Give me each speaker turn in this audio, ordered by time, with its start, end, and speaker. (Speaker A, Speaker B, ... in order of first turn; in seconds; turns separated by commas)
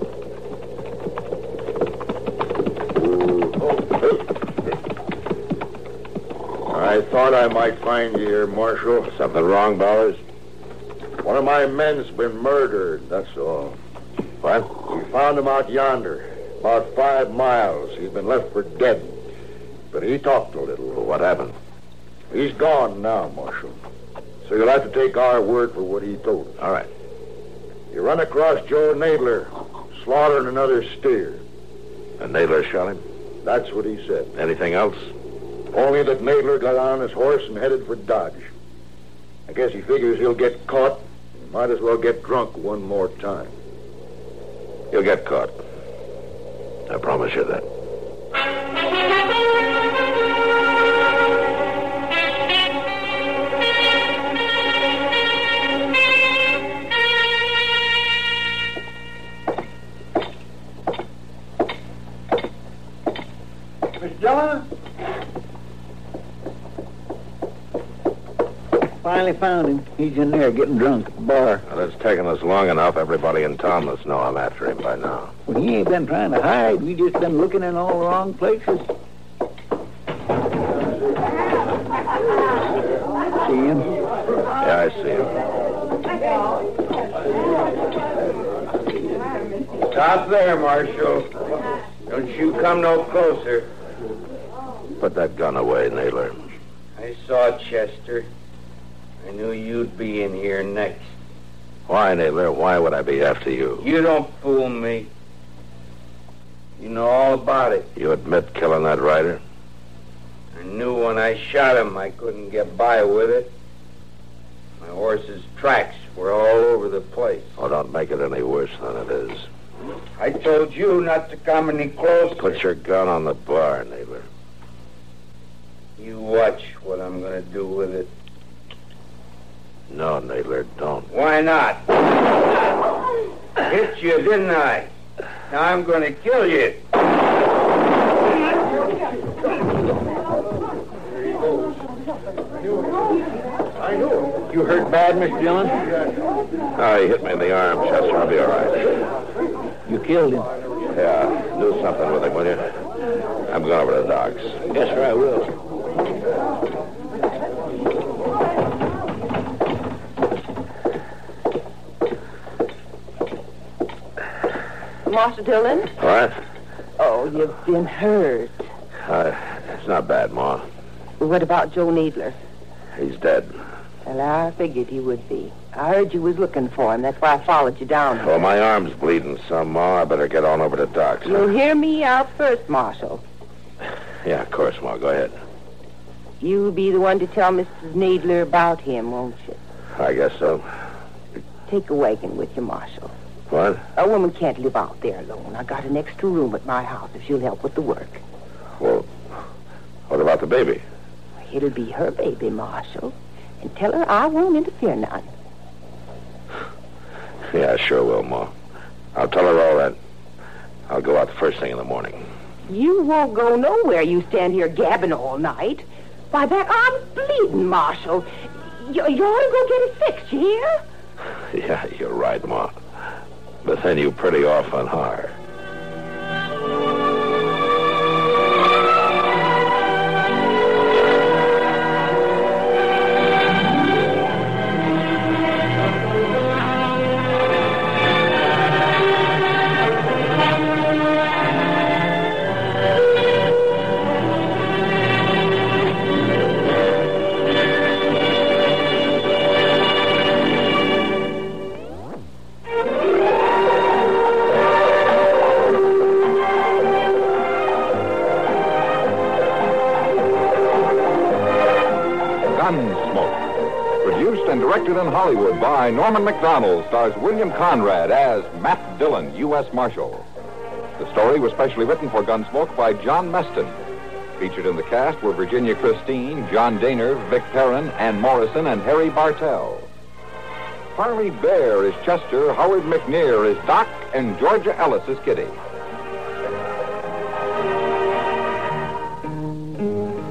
Speaker A: 3.0-4.2, Speaker A: 6.7-9.1, Speaker B: 9.1-10.2, Speaker A: 11.2-13.8, Speaker B: 14.4-14.7, Speaker A: 14.8-19.2, Speaker A: 19.9-20.9, Speaker B: 20.9-21.5, Speaker A: 22.3-23.8, Speaker A: 24.4-26.6, Speaker B: 26.6-26.9, Speaker A: 27.9-31.4, Speaker B: 32.2-33.0, Speaker A: 33.4-34.3, Speaker B: 34.3-35.1, Speaker A: 35.7-38.5, Speaker A: 39.5-43.5, Speaker B: 44.9-45.5, Speaker B: 46.9-47.6, Speaker C: 64.0-64.6, Speaker C: 69.0-71.6, Speaker B: 71.6-75.3, Speaker C: 75.5-78.9, Speaker C: 83.4-83.8, Speaker B: 84.6-85.3, Speaker D: 89.9-91.3, Speaker D: 92.1-93.7, Speaker B: 95.0-96.3, Speaker D: 97.0-98.3, Speaker D: 99.2-101.0, Speaker B: 101.9-103.9, Speaker D: 103.8-105.1, Speaker D: 106.8-107.9, Speaker B: 107.9-109.4, Speaker D: 110.5-113.5, Speaker D: 114.8-117.5, Speaker B: 117.6-119.5, Speaker D: 120.2-122.4, Speaker B: 122.4-124.3, Speaker D: 126.0-128.1, Speaker B: 129.9-131.1, Speaker D: 131.1-131.9, Speaker D: 133.6-134.9, Speaker D: 135.5-136.8, Speaker C: 144.3-145.9, Speaker B: 146.7-149.0, Speaker C: 149.9-150.5, Speaker B: 150.9-152.6, Speaker B: 153.5-155.5, Speaker C: 154.8-155.4, Speaker E: 165.1-165.9, Speaker B: 166.0-166.3, Speaker E: 167.0-168.6, Speaker B: 169.1-170.7, Speaker E: 171.2-172.4, Speaker B: 172.9-173.5, Speaker E: 174.1-178.4, Speaker B: 178.2-181.6, Speaker E: 181.2-183.2, Speaker B: 184.2-185.3, Speaker E: 186.4-189.6, Speaker B: 189.9-190.6, Speaker E: 191.7-193.1, Speaker B: 193.5-193.8, Speaker E: 193.9-198.2, Speaker B: 198.8-199.1, Speaker B: 200.1-200.8, Speaker E: 201.4-205.3, Speaker B: 207.5-208.5, Speaker B: 209.1-210.0, Speaker B: 210.9-212.3, Speaker E: 212.7-220.7, Speaker B: 221.5-222.7, Speaker B: 223.6-225.4, Speaker F: 262.5-263.4, Speaker F: 264.0-270.2, Speaker F: 271.0-273.7, Speaker F: 274.4-279.9, Speaker F: 280.9-285.6